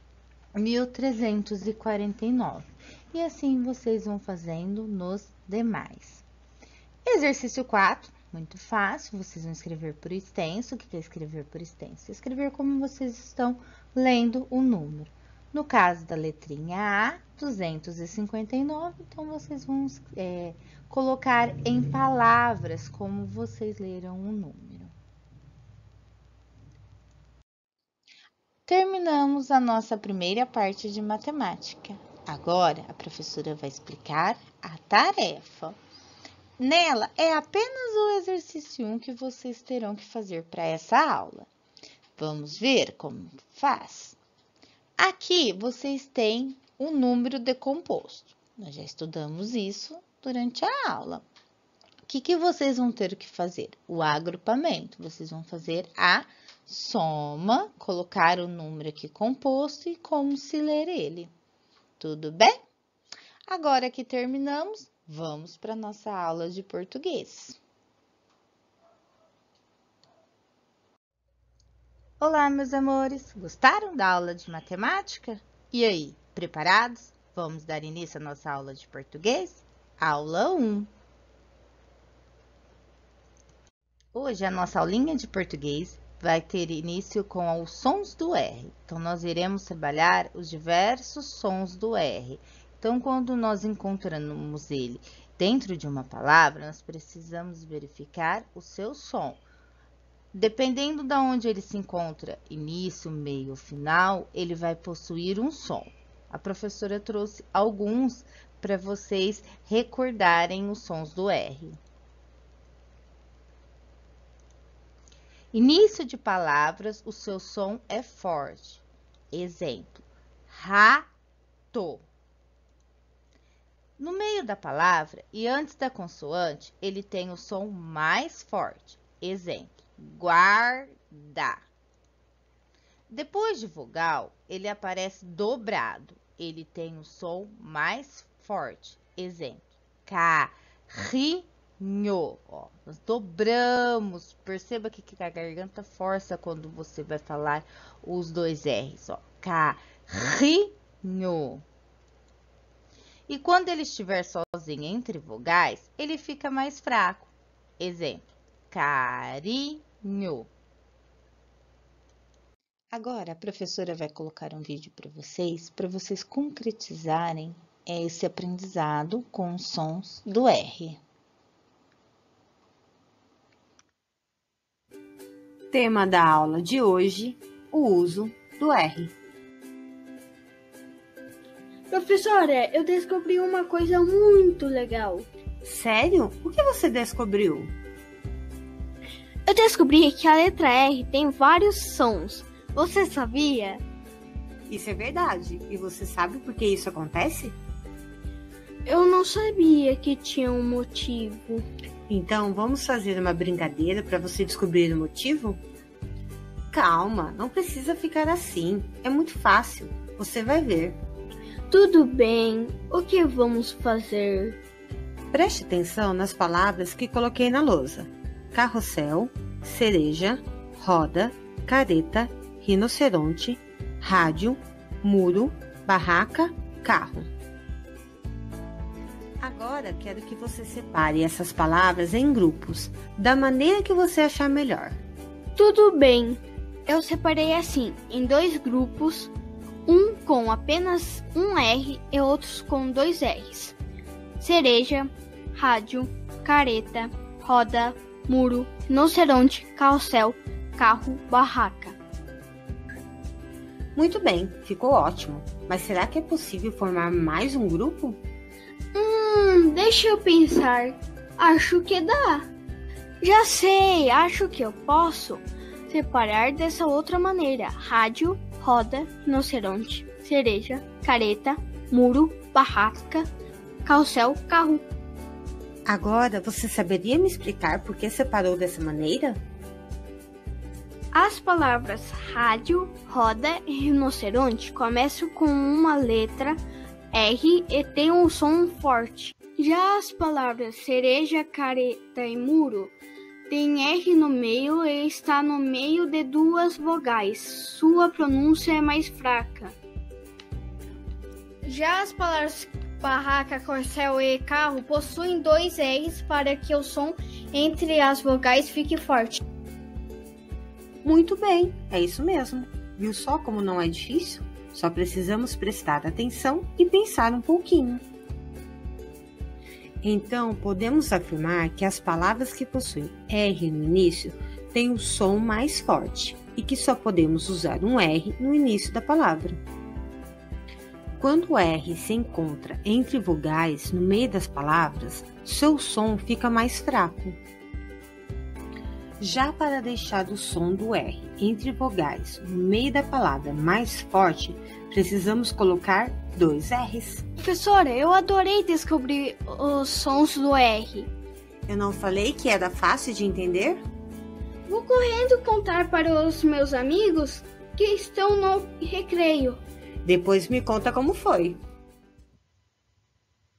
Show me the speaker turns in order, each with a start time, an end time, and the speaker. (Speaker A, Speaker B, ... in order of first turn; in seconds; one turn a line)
Speaker A: 0.6-6.2
Speaker A: 7.0-24.9
Speaker A: 28.7-35.8
Speaker A: 36.6-41.5
Speaker A: 42.2-44.2
Speaker A: 45.0-51.3
Speaker A: 52.1-61.3
Speaker A: 62.0-62.6
Speaker A: 63.5-67.6
Speaker A: 72.2-80.9
Speaker A: 84.1-99.4
Speaker A: 100.3-111.8
Speaker A: 115.5-121.1
Speaker A: 121.7-122.1
Speaker A: 124.0-131.6
Speaker A: 133.1-151.7
Speaker A: 153.3-160.5
Speaker A: 162.9-171.0
Speaker B: 175.7-179.1
Speaker C: 181.9-185.3
Speaker B: 185.6-187.7
Speaker C: 189.5-193.8
Speaker B: 194.7-197.6
Speaker C: 198.9-201.7
Speaker B: 202.1-205.6
Speaker B: 206.7-211.0
Speaker C: 211.7-214.6
Speaker B: 215.3-227.3
Speaker B: 229.4-235.0
Speaker C: 235.6-239.3
Speaker C: 239.9-243.8
Speaker C: 244.4-252.0
Speaker B: 253.9-258.2
Speaker C: 258.9-262.5
Speaker C: 263.2-273.3
Speaker C: 273.9-274.8
Speaker B: 275.9-279.4
Speaker C: 281.1-286.6
Speaker C: 287.1-292.9
Speaker C: 293.5-299.8
Speaker C: 301.6-309.4
Speaker B: 311.0-318.1
Speaker B: 320.0-329.6
Speaker B: 331.2-337.4
Speaker B: 339.2-347.2
Speaker C: 347.4-351.1
Speaker B: 351.7-353.8
Speaker C: 354.7-359.6
Speaker B: 360.0-361.6